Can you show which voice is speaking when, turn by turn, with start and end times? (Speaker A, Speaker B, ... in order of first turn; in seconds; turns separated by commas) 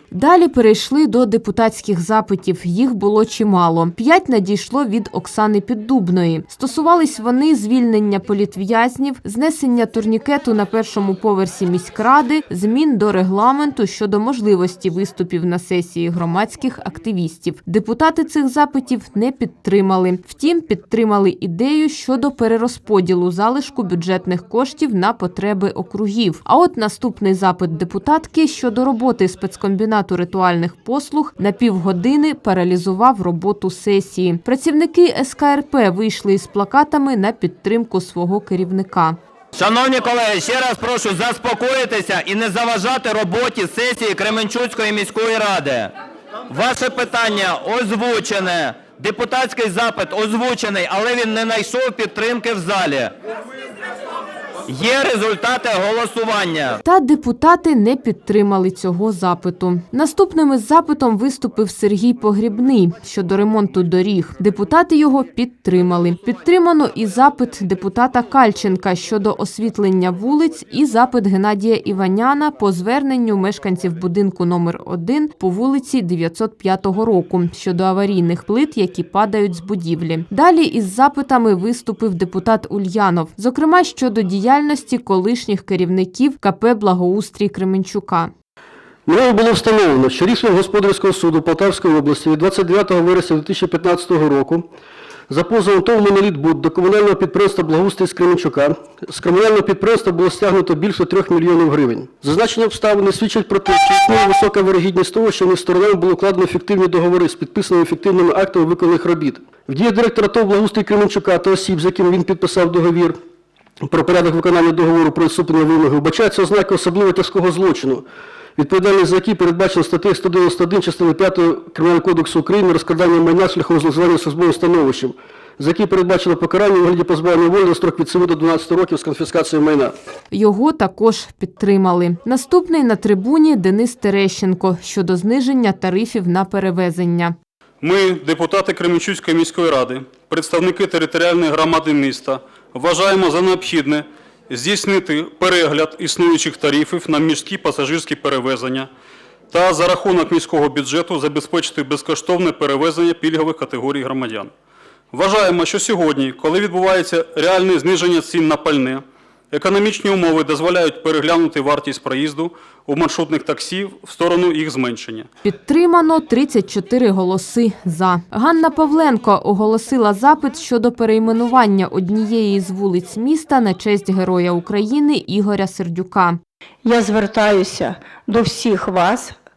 Speaker A: 0.1-39.2, Speaker B: 39.5-45.9, Speaker B: 46.5-53.1, Speaker B: 54.7-56.8, Speaker A: 56.8-88.3, Speaker C: 89.1-94.6, Speaker C: 95.3-113.1, Speaker C: 113.9-118.0, Speaker C: 118.6-129.9, Speaker A: 130.3-137.3, Speaker D: 137.8-148.9, Speaker D: 149.5-154.5, Speaker D: 155.1-165.3, Speaker A: 165.4-176.4, Speaker E: 176.8-179.4